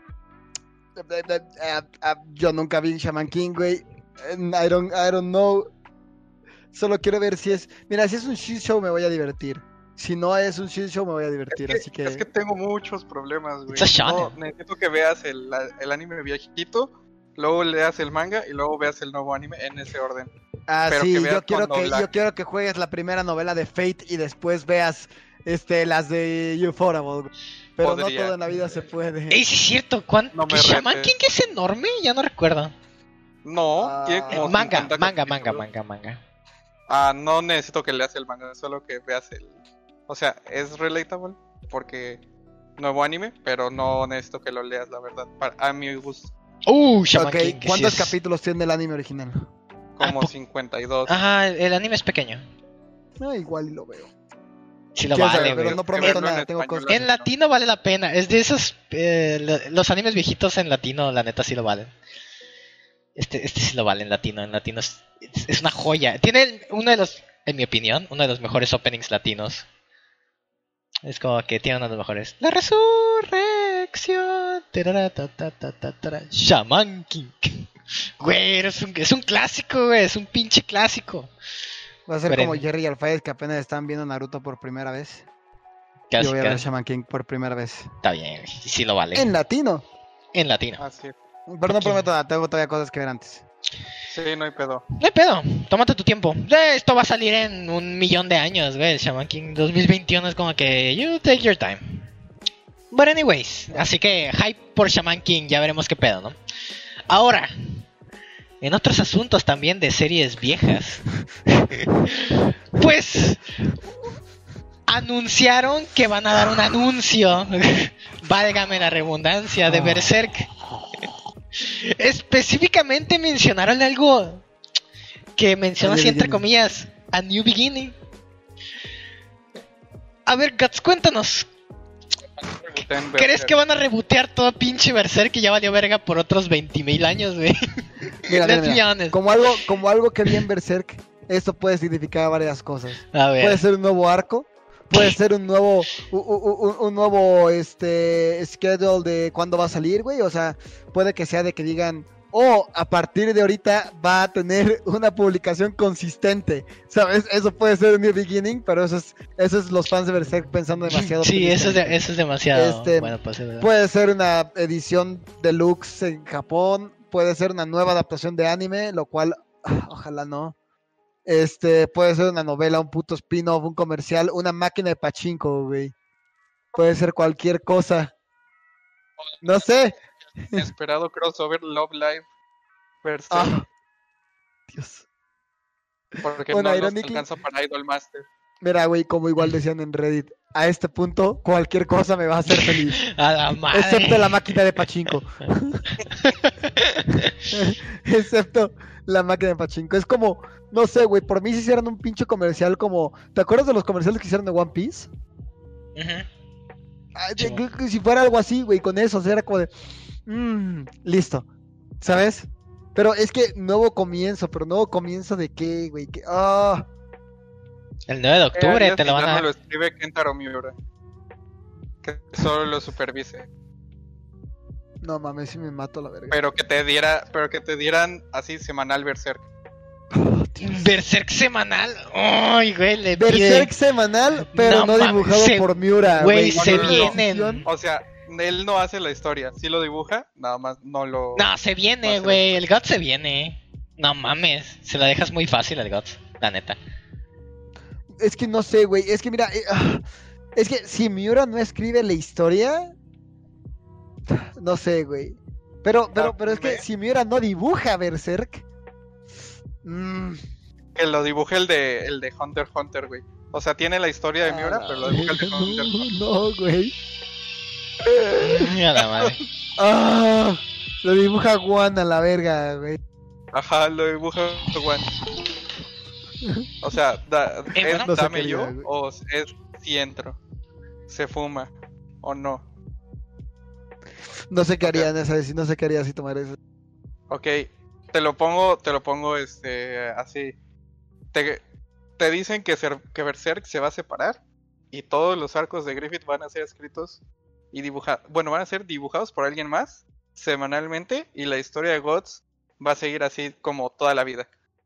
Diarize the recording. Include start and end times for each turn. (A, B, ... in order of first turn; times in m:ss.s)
0:01.0-0:05.7 A
0:06.7-0:12.2 A
0:11.5-0:20.3 B
0:13.7-0:14.3 C
0:20.7-0:29.4 A
0:20.9-0:22.1 B
0:27.8-0:28.8 B
0:29.3-0:32.7 C
0:30.3-0:31.2 B
0:33.4-0:35.6 B
0:33.8-0:34.5 A
0:34.3-0:36.2 C
0:36.9-0:39.6 B
0:40.1-0:42.2 B
0:42.8-0:46.3 B
0:46.7-0:48.1 C
0:47.1-0:49.4 A
0:50.0-0:51.2 B
0:50.0-0:50.3 C
0:51.1-0:52.4 C
0:53.2-0:54.1 A
0:54.9-0:56.2 C
0:55.1-0:56.9 A
0:55.2-0:57.3 B
0:56.9-1:01.9 C
1:03.2-1:09.6 C
1:11.0-1:17.6 C
1:18.2-1:21.3 C
1:22.1-1:25.2 A
1:22.3-1:22.6 C
1:26.1-1:26.6 C
1:26.2-1:27.9 A
1:28.0-1:29.3 C
1:29.1-1:29.8 A
1:30.3-1:30.8 C
1:30.8-1:31.1 B
1:31.5-1:33.4 A
1:31.7-1:32.0 C
1:34.1-1:34.8 B
1:35.0-1:42.1 C
1:42.9-1:46.4 C
1:47.1-1:47.8 C
1:48.6-1:51.0 C
1:51.6-1:53.4 C
1:54.9-2:00.5 C
2:01.5-2:04.4 C
2:05.4-2:08.0 C
2:05.8-2:06.4 A
2:10.2-2:11.5 C
2:12.4-2:13.5 B
2:13.1-2:19.2 C
2:18.3-2:42.0 A
2:23.1-2:23.6 C
2:40.9-2:43.7 C
2:42.5-2:50.5 A
2:51.2-2:55.9 A
2:56.7-2:58.1 A
2:59.3-2:59.6 B
2:59.4-3:00.7 A
3:00.6-3:02.2 B
3:03.0-3:03.6 B
3:03.3-3:03.6 A
3:04.7-3:05.0 A
3:06.2-3:08.2 B
3:06.5-3:07.2 A
3:08.6-3:13.0 A
3:12.5-3:14.5 C
3:13.7-3:15.8 A
3:16.1-3:17.3 C
3:17.5-3:25.1 A
3:25.9-3:26.3 C
3:27.1-3:29.7 A
3:27.4-3:27.6 C
3:30.3-3:31.4 A
3:32.0-3:36.8 A
3:38.1-3:39.4 C
3:38.5-3:40.8 B
3:42.0-3:43.5 B
3:45.0-3:46.4 A
3:46.3-3:49.4 B
3:50.1-3:50.9 A
3:50.6-3:53.7 C
3:53.2-3:57.7 A
3:54.5-3:57.7 C
3:56.5-4:01.5 B
4:01.3-4:06.8 C
4:02.0-4:02.6 B
4:08.2-4:10.0 A
4:10.6-4:12.9 A
4:14.3-4:18.6 A
4:16.1-4:16.8 B
4:19.8-4:20.4 A
4:20.9-4:26.1 B
4:24.4-4:26.9 A
4:28.0-4:28.7 A
4:28.3-4:29.4 C
4:29.0-4:29.4 B
4:29.8-4:33.0 A
4:33.5-4:35.1 B
4:36.8-4:40.4 B
4:37.7-4:38.1 C
4:38.0-4:38.9 A
4:41.1-4:42.6 B
4:44.5-4:46.6 A
4:44.8-4:45.1 B
4:47.3-4:50.5 B
4:51.3-4:51.6 B
4:52.2-4:54.4 B
4:54.9-4:57.2 B
4:57.7-5:04.5 B